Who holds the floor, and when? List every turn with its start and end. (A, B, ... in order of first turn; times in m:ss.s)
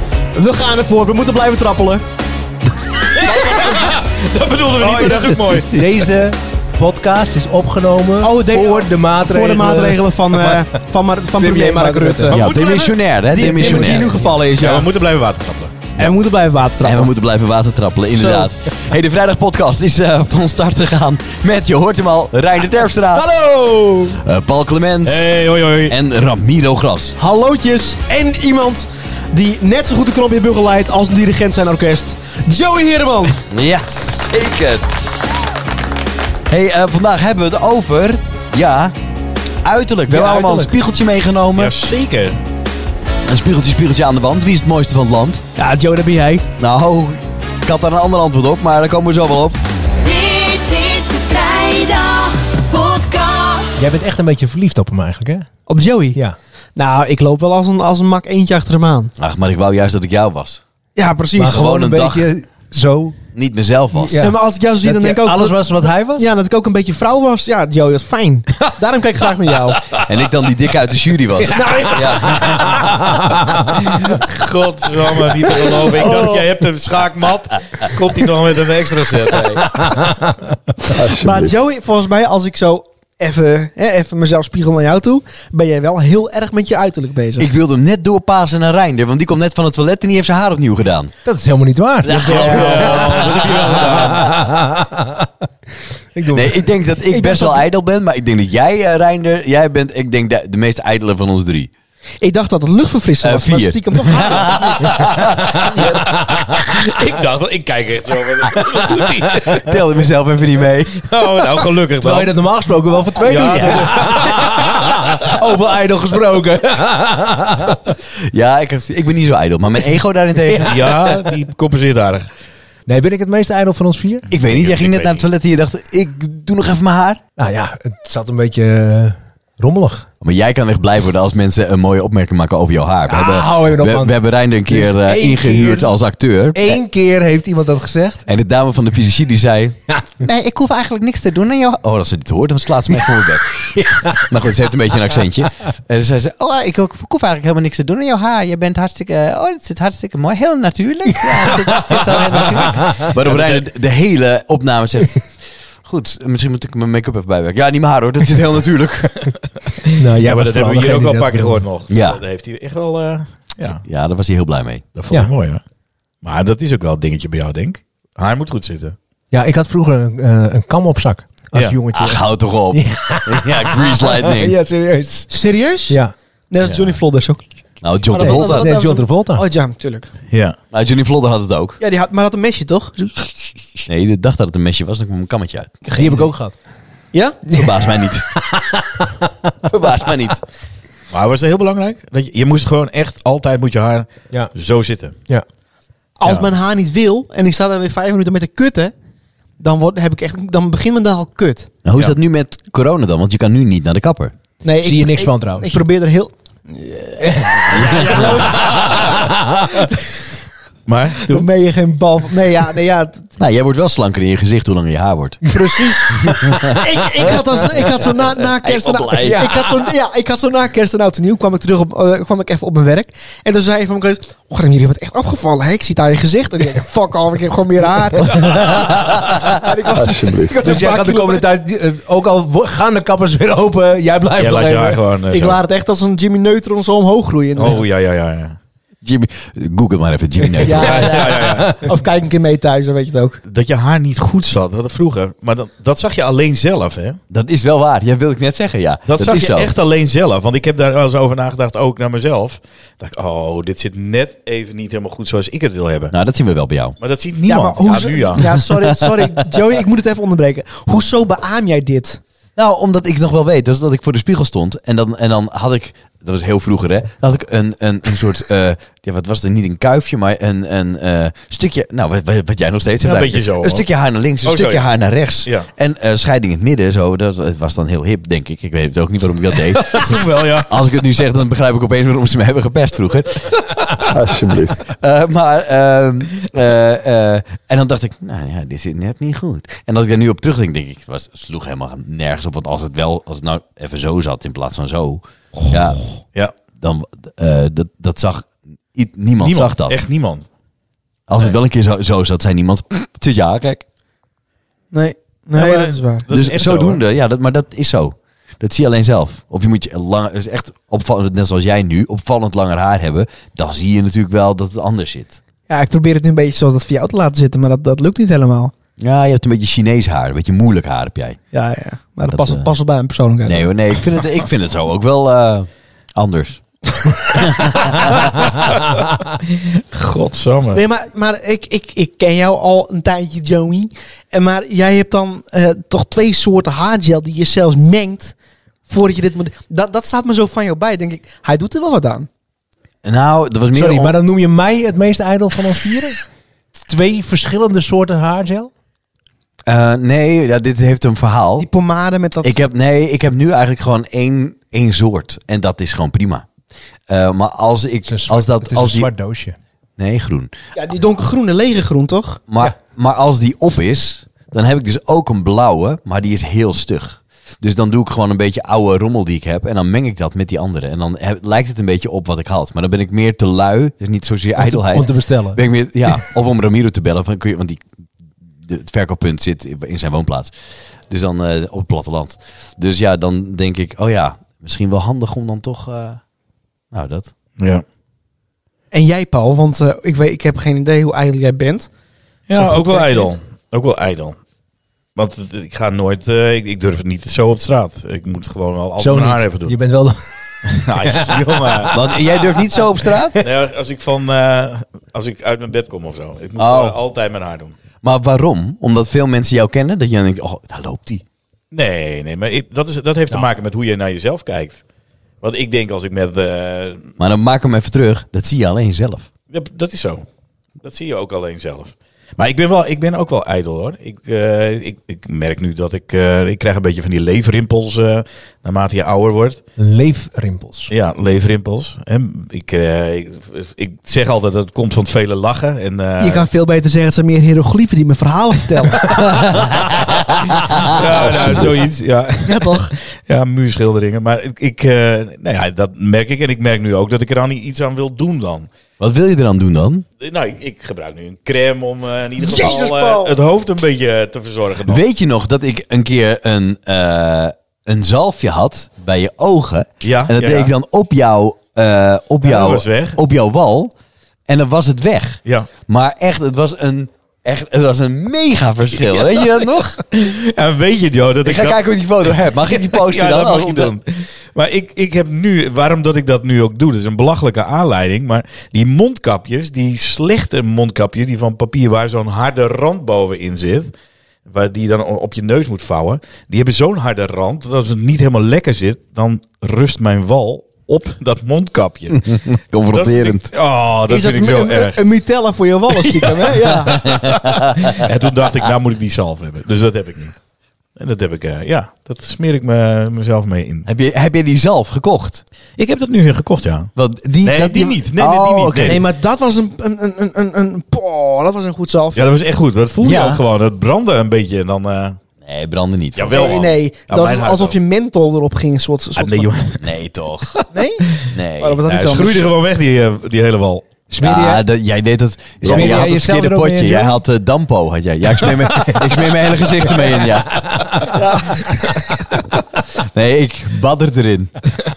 0:00.3-0:02.0 A
0:03.2-0:06.0 B
0:04.8-0:10.8 C
0:08.2-0:12.4 A
0:11.4-0:12.4 C
0:12.3-0:14.1 D
0:12.3-0:13.1 B
0:13.3-0:14.9 A
0:13.3-0:14.5 C
0:14.6-0:16.0 B
0:16.0-0:17.1 A
0:16.8-0:23.3 D
0:18.2-0:18.5 A
0:23.3-0:24.1 A
0:24.2-0:25.3 D
0:25.0-0:26.0 B
0:25.9-0:27.2 D
0:27.2-0:33.4 A
0:33.5-0:34.8 D
0:36.5-0:38.9 D
0:39.6-0:41.7 D
0:40.1-0:40.7 C
0:41.6-0:42.4 B
0:43.3-0:45.4 D
0:45.6-0:46.5 A
0:46.6-0:49.6 D
0:50.0-0:53.8 E
0:53.8-0:55.5 C
0:55.7-0:56.2 A
0:56.8-0:59.1 A
0:59.2-1:00.6 D
1:01.0-1:01.6 A
1:01.4-1:03.2 C
1:01.5-1:02.3 D
1:03.3-1:04.2 D
1:03.9-1:06.3 C
1:04.2-1:05.6 A
1:06.2-1:10.0 A
1:10.0-1:12.6 D
1:11.5-1:12.4 A
1:12.0-1:13.8 C
1:13.8-1:19.8 B
1:15.6-1:16.5 A
1:19.8-1:20.4 C
1:20.8-1:21.6 F
1:21.2-1:27.5 A
1:27.4-1:31.1 D
1:31.2-1:35.3 C
1:32.0-1:34.0 D
1:32.1-1:34.4 B
1:36.1-1:36.8 C
1:36.3-1:41.7 D
1:37.1-1:37.6 A
1:42.2-1:45.3 A
1:43.2-1:46.0 D
1:45.4-1:46.8 C
1:46.3-1:49.7 B
1:49.6-1:51.0 D
1:50.9-1:52.3 B
1:52.0-1:58.0 C
1:53.2-1:54.8 B
1:53.3-1:53.9 D
1:58.2-2:01.1 D
2:00.5-2:02.3 B
2:02.9-2:04.3 C
2:04.3-2:05.3 B
2:04.3-2:07.2 D
2:07.4-2:10.1 C
2:10.2-2:16.8 D
2:13.1-2:15.9 C
2:16.5-2:18.3 C
2:18.3-2:39.2 D
2:23.1-2:24.4 C
2:31.6-2:32.4 A
2:33.0-2:33.6 B
2:39.8-2:43.8 B
2:40.0-2:41.6 C
2:41.9-2:42.2 D
2:43.8-2:44.8 D
2:45.0-2:45.6 B
2:46.2-2:49.0 B
2:49.3-2:55.3 C
2:51.9-2:54.6 D
2:55.3-2:57.4 A
2:55.9-2:56.1 C
2:57.8-2:58.8 D
2:58.1-3:00.1 A
2:58.1-2:59.4 C
3:00.3-3:00.6 B
3:00.7-3:01.8 D
3:01.8-3:03.7 A
3:03.9-3:06.2 D
3:05.9-3:06.6 C
3:07.1-3:07.4 A
3:07.5-3:09.5 C
3:07.5-3:08.3 D
3:09.7-3:10.4 D
3:11.1-3:15.2 B
3:16.2-3:18.9 A
3:19.6-3:21.7 A
3:21.8-3:24.4 D
3:24.6-3:30.1 A
3:24.8-3:25.9 C
3:27.2-3:29.9 C
3:27.7-3:28.3 D
3:30.9-3:31.5 B
3:31.3-3:33.3 A
3:33.4-3:35.4 D
3:35.4-3:37.0 C
3:35.5-3:51.4 A
3:36.1-3:37.3 D
3:38.6-3:39.6 D
3:39.2-3:39.7 C
3:48.4-3:48.7 C
3:49.9-3:50.6 F
3:50.6-3:55.0 C
3:54.4-3:55.6 B
3:55.3-3:57.8 A
3:57.6-3:58.6 B
3:59.0-4:01.2 D
4:00.6-4:03.4 A
4:00.8-4:01.7 B
4:01.2-4:01.9 C
4:03.4-4:07.2 B
4:07.3-4:09.7 D
4:09.1-4:16.1 B
4:16.1-4:17.0 D
4:17.0-4:18.6 B
4:17.5-4:22.2 A
4:22.6-4:43.5 D
4:33.0-4:33.8 B
4:34.4-4:34.8 B
4:39.8-4:40.7 B
4:44.0-4:44.8 F
4:44.9-4:56.1 D
4:56.8-5:00.0 D
4:59.4-5:00.5 B
5:01.3-5:03.8 D
5:04.9-5:06.3 A
5:05.6-5:07.0 B
5:06.3-5:15.4 D
5:15.7-5:18.7 A
5:19.0-5:21.4 D
5:21.5-5:24.2 A
5:22.3-5:22.7 D
5:23.5-5:26.6 D
5:27.3-5:28.4 D
5:28.7-5:30.8 B
5:30.7-5:38.4 A
5:38.9-5:42.3 A
5:43.0-5:44.1 D
5:43.7-5:46.3 C
5:46.9-5:48.7 C
5:49.7-5:51.7 D
5:51.6-5:52.6 A
5:52.4-5:56.5 D
5:57.1-5:59.1 D
5:58.1-5:59.6 C
6:00.0-6:00.5 D
6:00.8-6:02.4 A
6:02.5-6:17.8 D
6:14.6-6:16.2 C
6:18.6-6:20.5 D
6:21.1-6:26.2 D
6:26.9-6:27.3 D
6:27.6-6:27.8 B
6:28.9-6:31.9 A
6:32.5-6:34.4 B
6:32.6-6:33.4 A
6:35.2-6:39.7 B
6:39.0-6:43.4 C
6:40.7-6:42.0 B
6:41.9-6:43.4 D
6:43.4-6:47.8 B
6:46.6-6:47.0 D
6:48.0-6:51.2 D
6:51.7-6:54.8 B
6:55.4-6:57.1 B
6:57.2-6:59.3 D
6:59.5-7:00.3 B
7:00.8-7:09.6 B
7:09.8-7:10.9 C
7:10.9-7:16.5 B
7:16.2-7:19.5 A
7:19.2-7:21.8 D
7:20.8-7:28.7 B
7:22.4-7:22.9 A
7:29.0-7:30.0 D
7:30.2-7:35.0 B
7:32.4-7:33.3 A
7:34.9-7:43.9 D
7:40.0-7:40.7 B
7:42.4-7:43.2 B
7:44.5-7:50.0 D
7:49.0-8:03.9 B
7:51.4-7:53.9 D
8:04.5-8:12.4 B
8:12.2-8:13.5 D
8:12.9-8:15.0 B
8:14.1-8:17.0 A
8:15.9-8:20.4 B
8:16.8-8:18.1 D
8:21.0-8:23.9 B
8:23.9-8:25.4 D
8:25.8-8:29.0 B
8:27.0-8:29.0 D
8:28.8-8:32.3 A
8:32.2-8:35.2 B
8:33.0-8:33.4 D
8:35.4-8:36.6 D
8:36.2-8:37.8 B
8:36.3-8:39.6 A
8:39.2-8:39.8 B
8:39.8-8:40.6 D
8:40.5-8:41.3 B
8:40.7-8:42.5 A
8:41.3-8:41.8 D
8:41.9-8:43.9 B
8:44.1-8:44.7 C
8:44.2-8:51.2 D
8:45.6-8:47.2 C
8:48.6-8:49.1 C
8:50.8-8:51.2 C
8:51.1-8:52.1 A
8:52.9-8:54.6 D